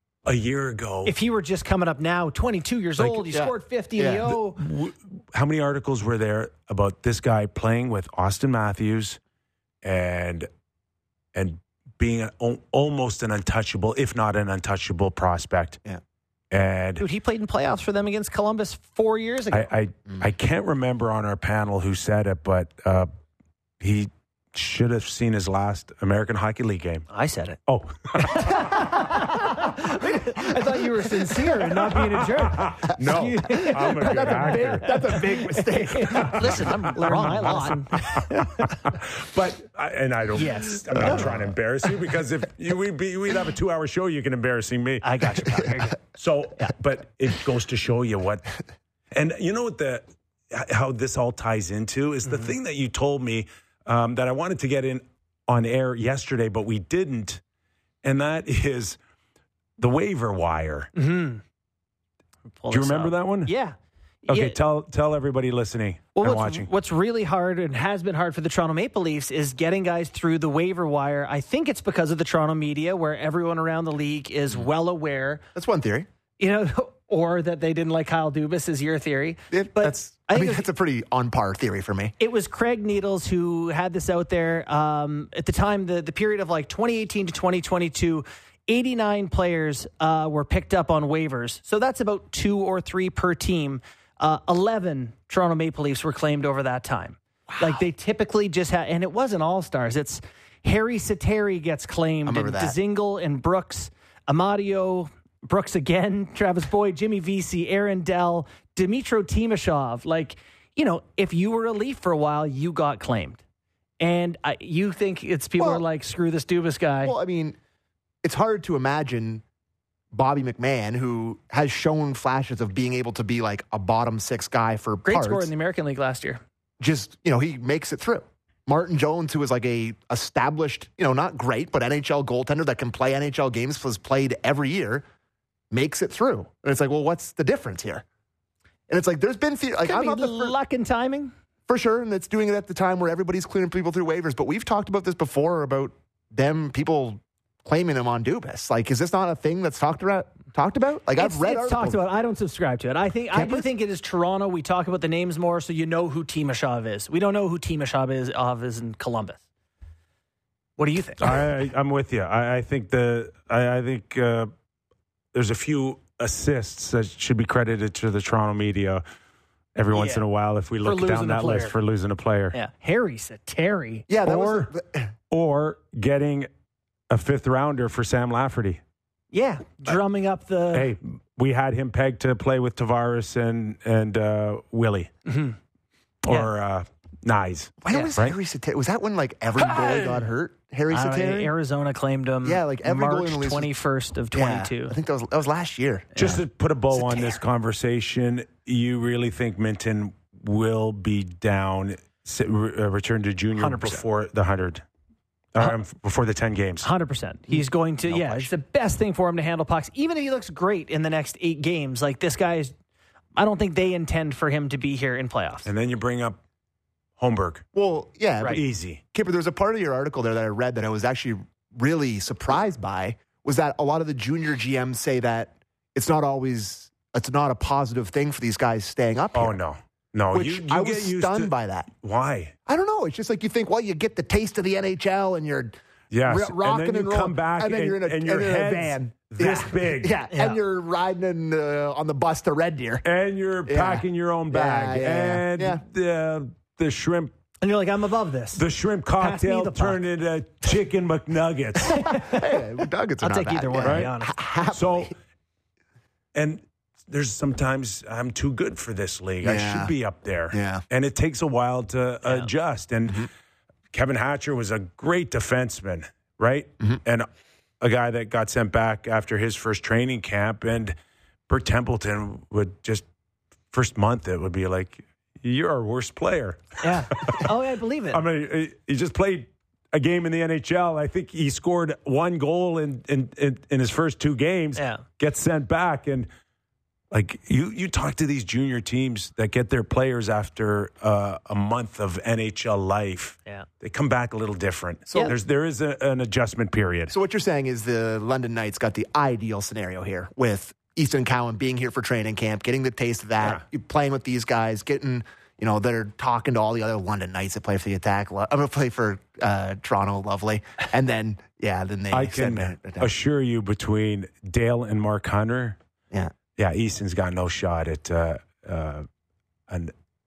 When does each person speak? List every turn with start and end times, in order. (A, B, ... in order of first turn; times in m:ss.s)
0:00.3-0:01.1 A
0:01.0-0:04.6 B
0:03.0-0:03.4 A
0:03.4-0:04.3 C
0:04.2-0:09.2 A
0:09.8-0:10.5 A
0:11.4-0:15.8 A
0:16.5-0:17.0 A
0:17.0-0:19.7 B
0:19.5-0:23.1 A
0:23.8-0:27.1 A
0:27.1-0:27.6 B
0:27.7-0:28.6 A
0:28.2-0:38.9 B
0:32.0-0:35.3 A
0:33.8-0:36.8 C
0:36.1-0:45.1 A
0:40.4-0:41.4 B
0:41.0-0:41.3 C
0:45.0-0:46.0 B
0:46.1-0:48.5 A
0:49.1-0:57.4 A
0:58.0-0:59.0 A
0:59.8-1:00.9 A
1:01.0-1:01.4 B
1:02.5-1:04.6 B
1:02.7-1:03.5 A
1:04.3-1:06.7 A
1:06.2-1:15.4 B
1:15.6-1:16.1 C
1:16.4-1:20.6 B
1:19.5-1:22.2 C
1:22.2-1:53.4 B
1:37.5-1:37.8 C
1:42.2-1:42.8 C
1:54.0-1:57.2 B
1:55.6-1:55.8 C
1:57.0-1:57.6 C
1:58.2-1:59.4 C
2:00.1-2:05.5 C
2:05.0-2:06.4 B
2:06.8-2:15.0 C
2:15.7-2:18.0 C
2:18.9-2:20.6 C
2:19.8-2:21.3 B
2:21.7-2:32.0 C
2:31.2-2:39.4 B
2:33.3-2:33.7 C
2:40.8-2:41.4 B
2:41.2-2:44.5 A
2:45.3-2:49.0 A
2:49.8-2:52.6 A
2:49.9-2:50.2 B
2:50.8-2:51.8 B
2:52.5-2:54.7 B
2:54.1-2:55.1 C
2:55.3-2:56.5 A
2:57.1-2:58.8 A
2:59.3-3:00.9 B
3:00.7-3:05.1 A
3:05.3-3:05.6 B
3:06.2-3:08.4 A
3:07.8-3:11.5 C
3:10.9-3:15.0 B
3:12.4-3:13.7 C
3:14.3-3:16.4 C
3:16.2-3:24.8 A
3:16.9-3:17.4 C
3:23.6-3:24.0 B
3:25.5-3:26.9 A
3:26.8-3:32.7 B
3:28.1-3:28.5 A
3:33.4-3:35.7 B
3:35.6-3:36.4 A
3:37.2-3:37.7 A
3:37.8-3:49.6 C
3:38.5-3:39.0 A
3:49.4-3:52.5 A
3:50.3-3:51.9 C
3:52.7-4:03.0 C
3:56.1-4:00.1 A
4:00.3-4:00.6 B
4:03.0-4:07.3 A
4:03.7-4:05.8 C
4:07.6-4:08.6 B
4:08.6-4:12.0 A
4:09.2-4:10.0 B
4:11.9-4:12.5 B
4:12.0-4:15.1 C
4:13.2-4:14.4 B
4:13.8-4:14.1 A
4:14.7-4:15.1 A
4:16.4-4:23.3 A
4:19.4-4:19.9 C
4:20.5-4:20.8 C
4:23.9-4:27.3 A
4:27.8-4:31.0 A
4:31.5-4:33.0 A
4:33.7-4:37.5 A
4:36.8-4:38.2 B
4:38.1-4:46.3 A
4:44.8-4:45.0 B
4:47.1-4:57.1 A
4:55.1-4:55.4 C
4:57.1-5:13.1 C
5:12.1-5:15.8 A
5:16.6-5:19.1 A